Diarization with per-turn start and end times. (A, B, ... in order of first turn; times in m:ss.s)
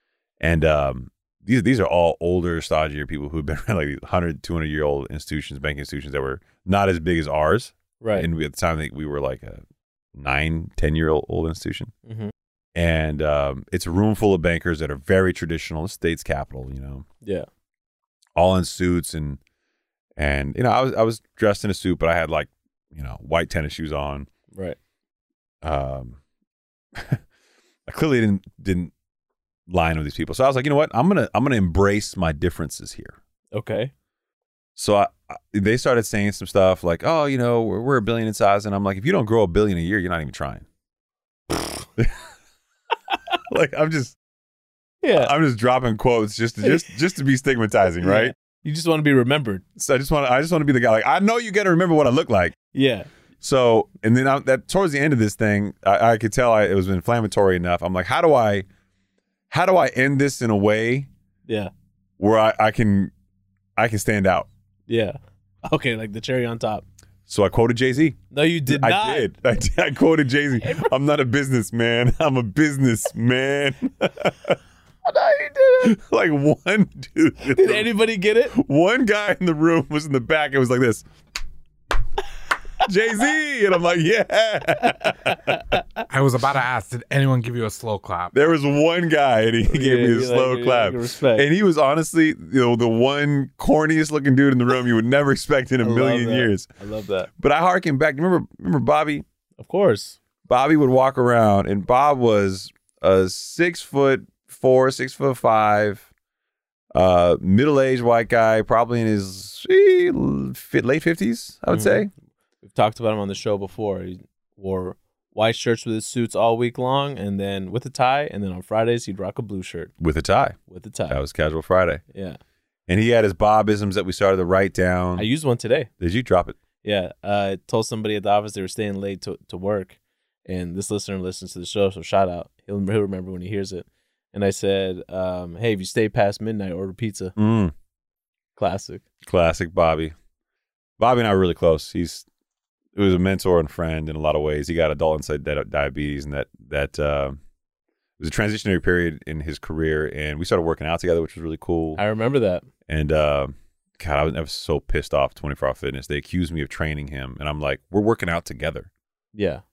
0:00.4-0:09.6 A
0:08.0-0:08.3 B
0:10.1-0:11.9 A
0:12.0-0:12.3 B
0:12.8-0:17.0 A
0:17.2-0:17.5 B
0:18.4-0:19.4 A
0:20.2-0:24.3 A
0:24.5-0:24.8 B
0:25.6-0:26.2 A
0:27.0-0:27.2 A
0:27.9-0:28.9 A
0:29.7-0:33.2 A
0:33.5-0:33.9 B
0:34.8-0:40.6 A
0:43.5-0:44.2 A
0:45.0-0:45.3 B
0:45.1-0:48.3 A
0:46.6-0:46.9 B
0:48.0-0:49.6 B
0:49.8-0:52.5 A
0:52.7-0:53.1 B
0:53.4-0:58.6 A
0:59.5-1:01.1 A
1:01.4-1:01.7 B
1:02.2-1:03.1 A
1:03.8-1:04.5 A
1:04.9-1:06.8 B
1:07.3-1:14.6 A
1:08.3-1:09.3 B
1:10.6-1:10.9 B
1:15.0-1:16.0 B
1:15.8-1:17.9 A
1:17.5-1:18.5 B
1:18.5-1:21.0 A
1:22.8-1:25.7 A
1:25.2-1:26.0 B
1:26.1-1:28.5 C
1:28.3-1:36.7 A
1:29.7-1:31.5 B
1:35.8-1:37.3 B
1:37.4-1:39.2 A
1:39.6-1:40.2 B
1:40.4-1:46.1 A
1:46.9-1:52.1 A
1:51.7-1:52.0 B
1:52.6-1:59.9 B
2:00.0-2:00.6 A
2:00.7-2:01.2 B
2:01.1-2:02.0 A
2:02.1-2:02.4 B
2:02.9-2:05.3 A
2:05.2-2:05.9 B
2:06.0-2:06.6 A
2:06.8-2:17.3 B
2:17.4-2:17.7 A
2:18.6-2:19.0 B
2:19.2-2:20.1 A
2:21.0-2:22.2 A
2:23.0-2:27.4 A
2:28.2-2:32.0 A
2:32.0-2:32.6 B
2:32.9-2:38.9 A
2:39.3-2:39.6 B